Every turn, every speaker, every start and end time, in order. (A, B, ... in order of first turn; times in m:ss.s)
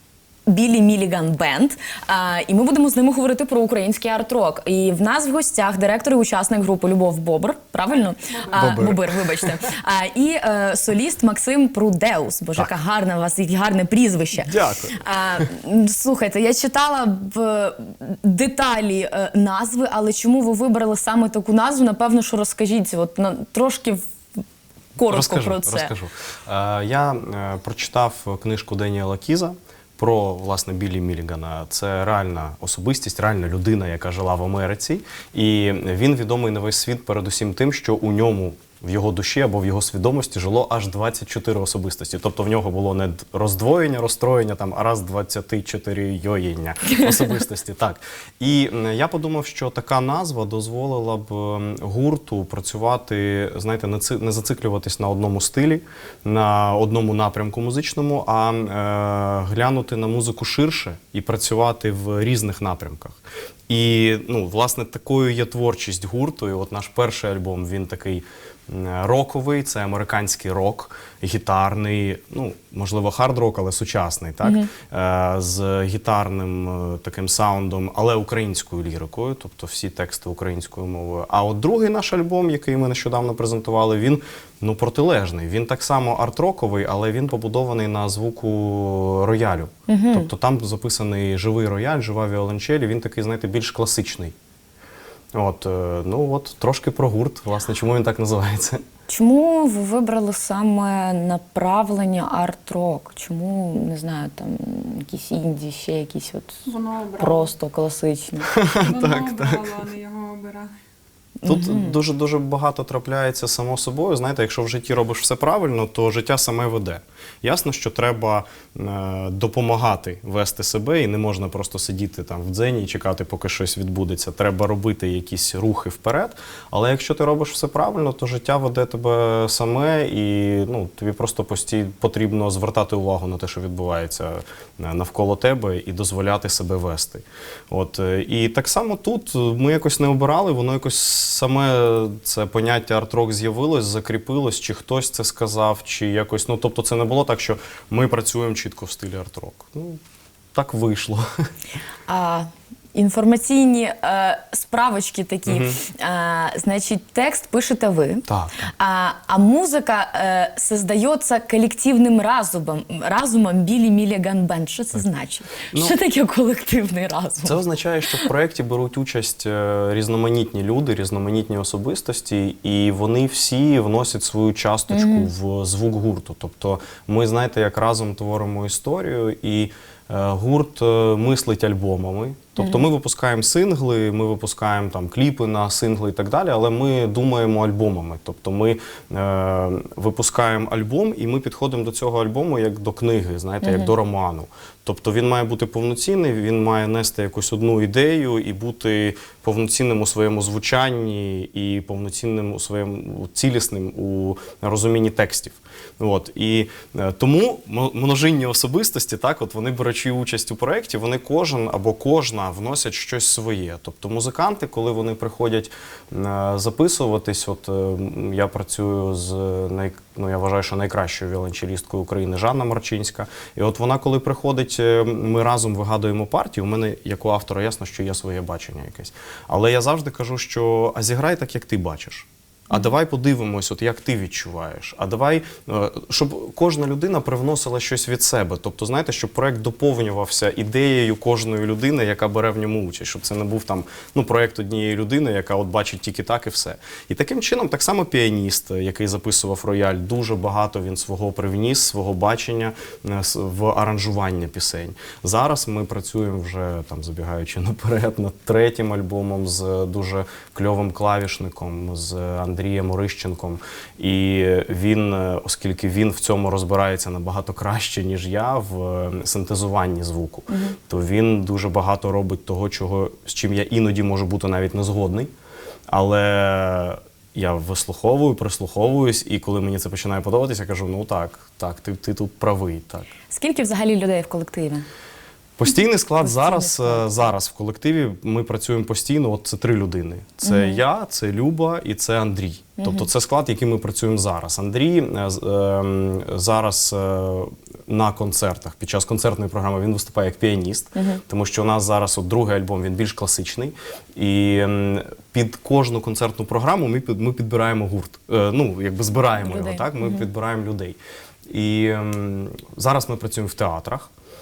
0:00.5-0:24.0 A
0:08.2-0:08.8 B
0:08.5-0:09.7 C
0:14.4-0:15.5 C
0:25.0-0:25.9 A
0:25.1-1:34.3 C
1:14.4-1:14.7 A
1:29.9-1:30.3 A
1:35.3-1:38.8 C
1:39.1-1:46.6 A
1:46.7-1:47.5 B
1:47.2-1:48.5 A
1:48.5-1:49.6 C
1:48.8-1:50.7 B
1:51.4-1:52.0 A
1:51.5-2:30.0 C
2:30.5-2:31.5 C
2:32.1-2:47.6 A
2:35.5-2:35.8 C
2:38.3-2:38.7 C
2:47.4-4:35.3 C
2:54.9-2:55.3 A
3:02.6-3:02.8 A
3:13.6-3:13.9 A
4:30.5-4:30.8 A
4:35.9-4:43.1 C
4:43.3-4:44.9 A
4:45.6-5:11.0 C
4:46.2-4:47.2 A
4:50.4-4:50.8 A
4:52.8-4:53.1 A
5:01.0-5:01.2 A
5:09.4-5:10.3 A
5:11.5-5:14.1 C